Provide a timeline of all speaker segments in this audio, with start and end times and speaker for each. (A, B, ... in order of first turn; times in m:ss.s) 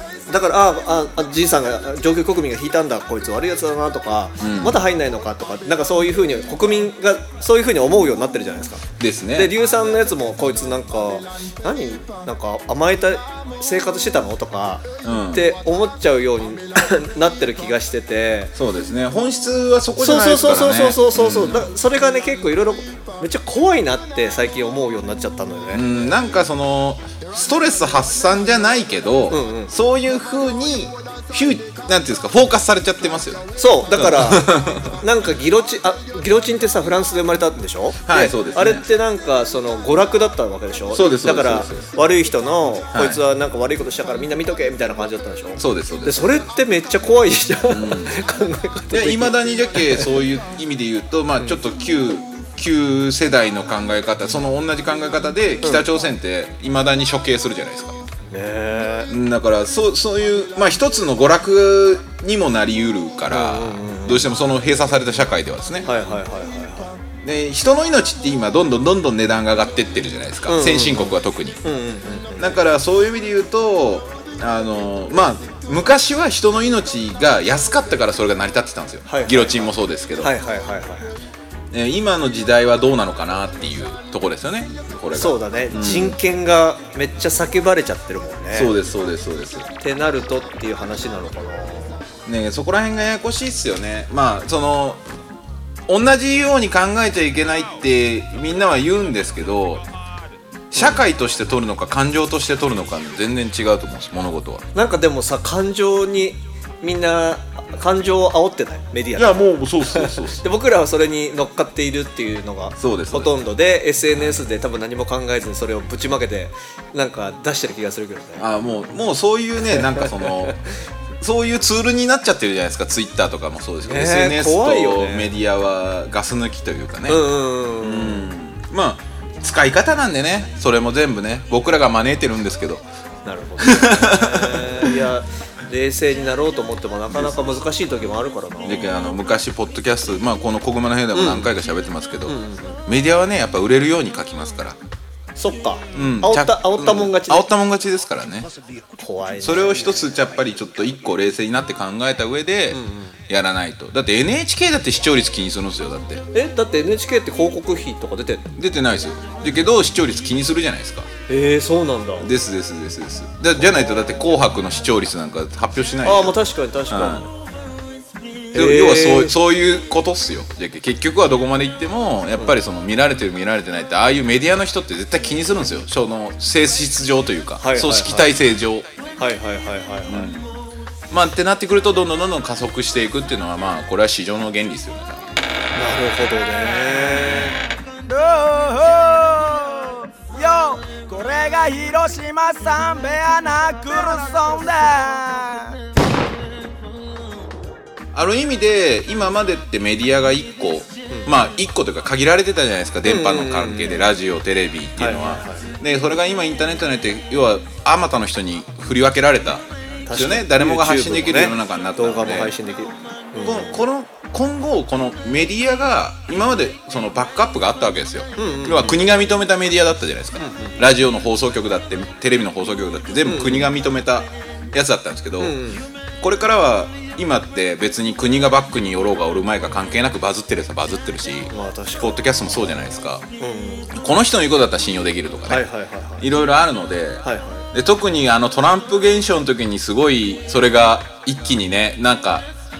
0:00.3-0:18.5 A
0:04.4-0:04.8 B
0:09.0-0:09.5 B
0:15.0-0:15.5 B
0:18.5-0:21.7 B
0:20.0-0:25.8 A
0:25.7-0:35.0 B
0:29.3-0:29.7 A
0:33.6-0:50.2 A
0:38.0-0:38.8 B
0:40.9-0:41.9 B
0:42.9-0:43.2 B
0:45.6-0:46.4 B
0:47.7-0:48.2 B
0:48.9-0:57.9 B
0:55.6-0:55.9 A
0:58.3-0:59.1 A
0:59.1-1:05.9 B
1:03.3-1:04.3 A
1:05.8-1:06.9 A
1:07.2-1:11.6 B
1:10.5-1:12.6 A
1:12.4-1:20.3 B
1:19.1-1:21.1 A
1:21.7-1:26.2 B
1:25.1-1:28.7 A
1:28.5-1:29.7 B
1:29.8-1:32.0 A
1:32.2-1:35.0 B
1:35.9-1:39.8 B
1:40.7-1:44.6 B
1:40.8-1:41.0 A
1:44.7-1:58.5 A
1:49.1-1:50.4 B
1:52.8-1:53.3 B
1:54.1-1:54.4 B
1:58.4-2:00.6 B
1:59.6-2:00.7 A
2:01.2-2:07.2 B
2:03.8-2:05.3 A
2:07.1-2:08.3 A
2:07.8-2:12.8 B
2:13.2-2:18.9 A
2:13.6-2:15.0 B
2:17.1-2:17.4 B
2:18.6-2:24.8 B
2:21.1-2:21.5 A
2:22.2-2:22.8 A
2:25.4-2:27.4 A
2:25.9-2:28.5 B
2:29.0-2:30.2 A
2:29.4-2:36.2 B
2:32.7-2:33.2 A
2:36.3-2:38.5 A
2:38.6-2:41.1 B
2:41.3-2:42.3 A
2:42.2-2:46.4 B
2:43.6-2:44.0 A
2:46.0-2:47.3 A
2:46.9-2:47.3 B
2:48.5-2:49.4 A
2:48.5-2:58.9 B
2:57.6-2:58.3 A
2:59.2-3:00.3 A
3:00.0-3:00.5 B
3:01.1-3:05.2 B
3:05.7-3:07.6 A
3:08.1-3:15.7 C
3:18.1-3:32.5 B
3:23.0-3:24.1 A
3:25.0-3:25.7 A
3:30.0-3:33.8 A
3:33.4-3:45.6 B
3:38.4-3:39.0 A
3:40.4-3:40.8 A
3:43.2-3:43.7 A
3:45.4-3:45.8 A
3:46.2-3:53.2 B
3:51.5-3:54.0 A
3:53.9-3:55.7 B
3:55.5-3:56.3 A
3:56.2-4:02.5 B
3:57.2-3:57.6 A